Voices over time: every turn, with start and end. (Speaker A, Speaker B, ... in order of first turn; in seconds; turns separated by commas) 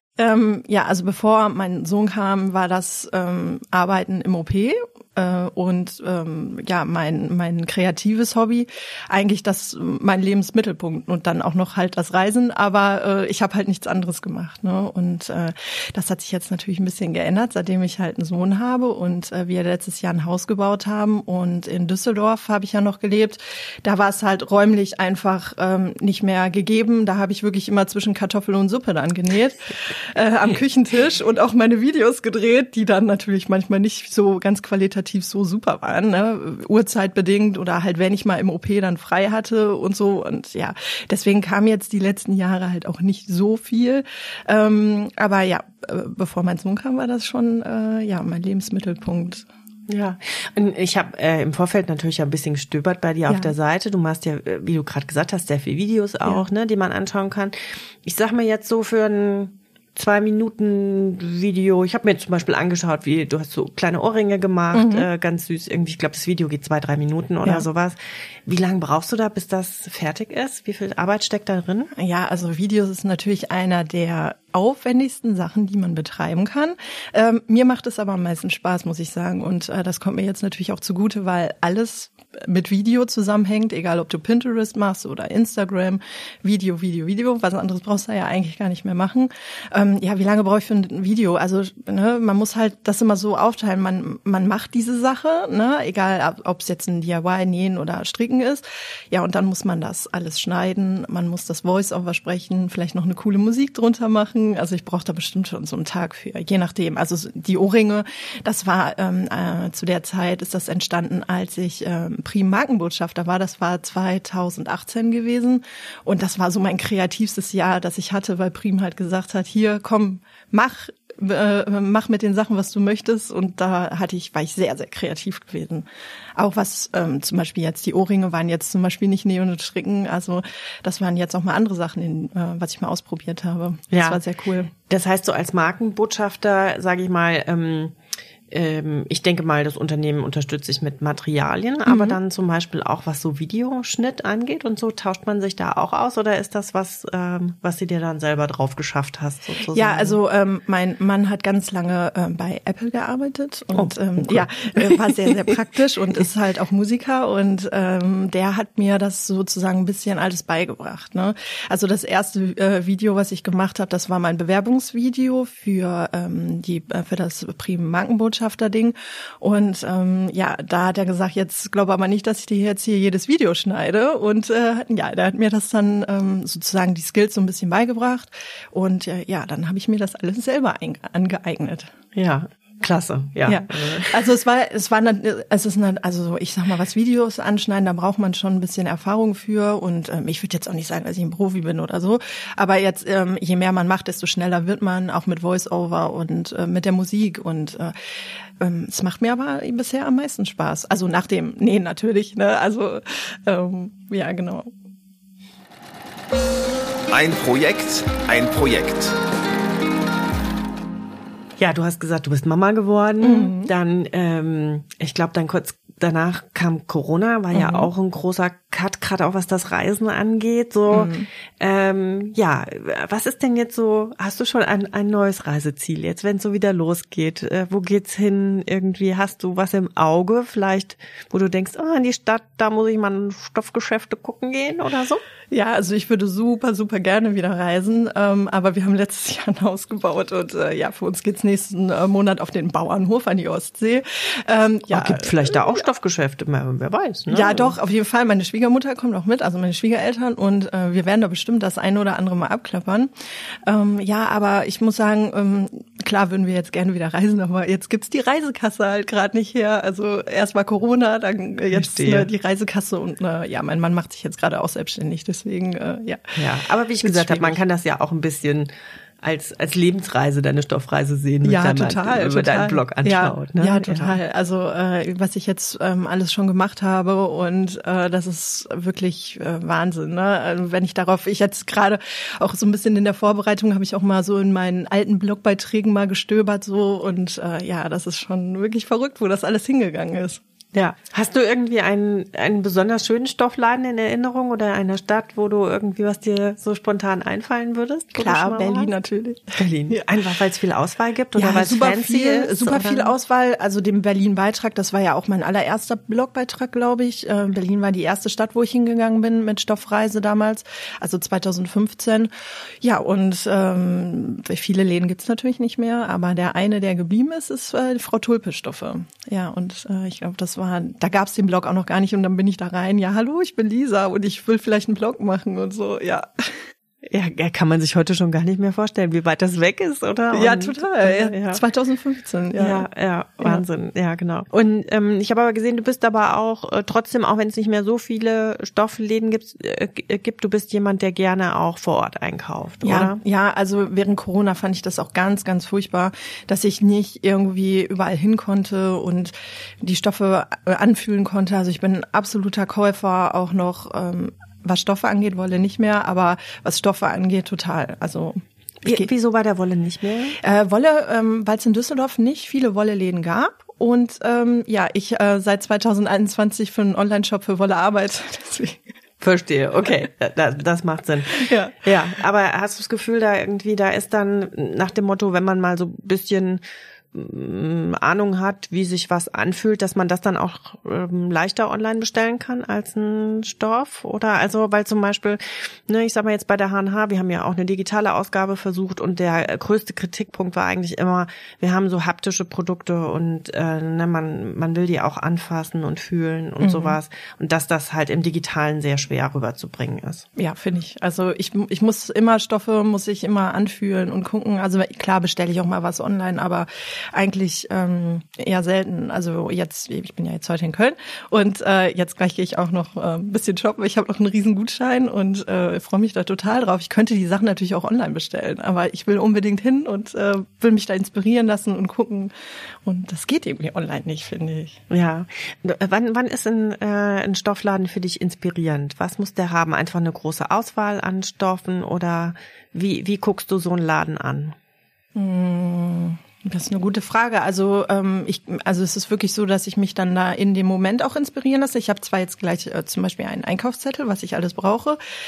Speaker A: 0.2-49.5, Speaker B: 49.9-71.9, Speaker A: 53.3-53.5, Speaker A: 64.7-65.1, Speaker A: 72.0-125.8, Speaker A: 126.4-134.7, Speaker B: 133.9-134.2, Speaker B: 134.9-137.9, Speaker B: 138.5-150.2, Speaker A: 141.9-142.2, Speaker A: 149.7-181.9, Speaker B: 153.7-155.3, Speaker B: 182.2-184.2, Speaker A: 183.5-197.9, Speaker A: 198.6-204.7, Speaker C: 207.1-209.2, Speaker B: 211.6-235.2, Speaker A: 213.2-213.7, Speaker A: 217.5-217.9, Speaker A: 220.9-221.3, Speaker A: 235.5-245.6, Speaker B: 244.9-247.8, Speaker A: 247.3-253.1, Speaker A: 253.7-266.4, Speaker B: 261.7-262.3, Speaker B: 266.4-268.7, Speaker A: 267.0-267.6, Speaker B: 269.2-274.2, Speaker A: 271.4-290.4, Speaker B: 290.7-298.9, Speaker A: 298.1-300.1, Speaker B: 299.6-303.1, Speaker A: 301.4-312.3, Speaker A: 312.8-326.7, Speaker B: 327.1-331.6, Speaker A: 330.3-332.9, Speaker B: 332.6-343.2, Speaker A: 342.8-359.1, Speaker B: 358.8-360.4, Speaker A: 360.4-368.8, Speaker B: 369.2-400.3, Speaker A: 371.4-371.8, Speaker A: 396.6-397.0, Speaker A: 400.4-422.3, Speaker A: 422.9-424.8, Speaker B: 424.9-434.6, Speaker A: 435.1-445.0